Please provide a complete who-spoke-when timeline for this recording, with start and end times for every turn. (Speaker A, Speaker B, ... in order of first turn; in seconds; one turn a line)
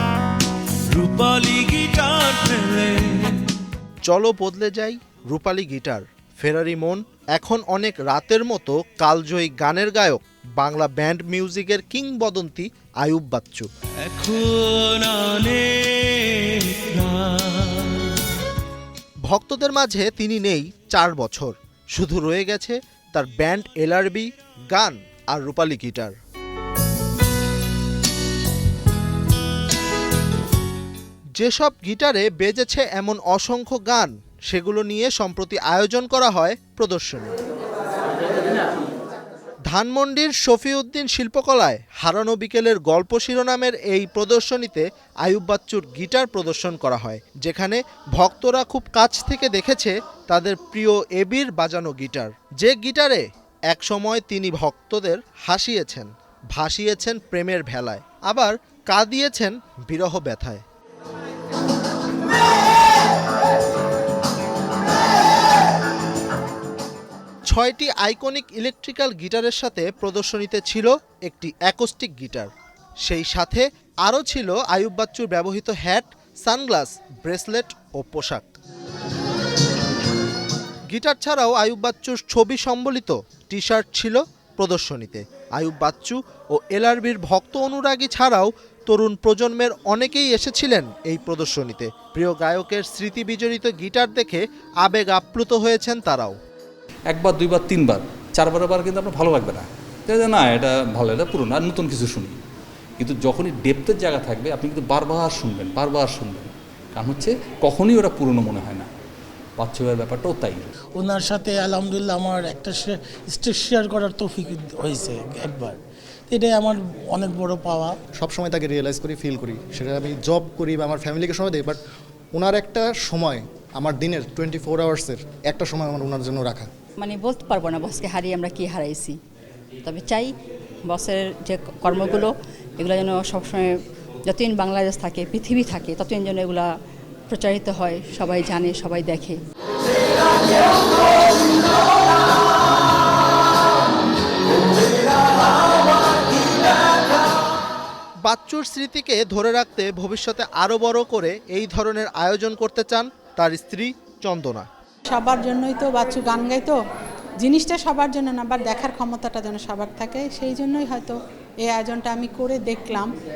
Speaker A: 0.9-3.4
Speaker B: 4.0-13.7
Speaker A: 14.0-18.0
Speaker B: 19.2-26.1
Speaker B: 31.4-37.4
Speaker B: 39.7-60.6
Speaker B: 67.5-72.5
Speaker B: 73.0-78.5
Speaker B: 80.9-96.3
Speaker C: 97.1-102.4
Speaker C: 103.0-108.9
Speaker C: 109.6-110.7
Speaker D: 110.9-118.0
Speaker E: 118.2-121.8
Speaker E: 122.3-126.7
Speaker F: 127.0-129.2
Speaker F: 129.8-130.3
Speaker F: 130.8-133.7
Speaker F: 134.3-136.7
Speaker F: 137.3-139.4
Speaker B: 148.2-154.7
Speaker G: 155.1-156.8
Speaker G: 157.4-163.1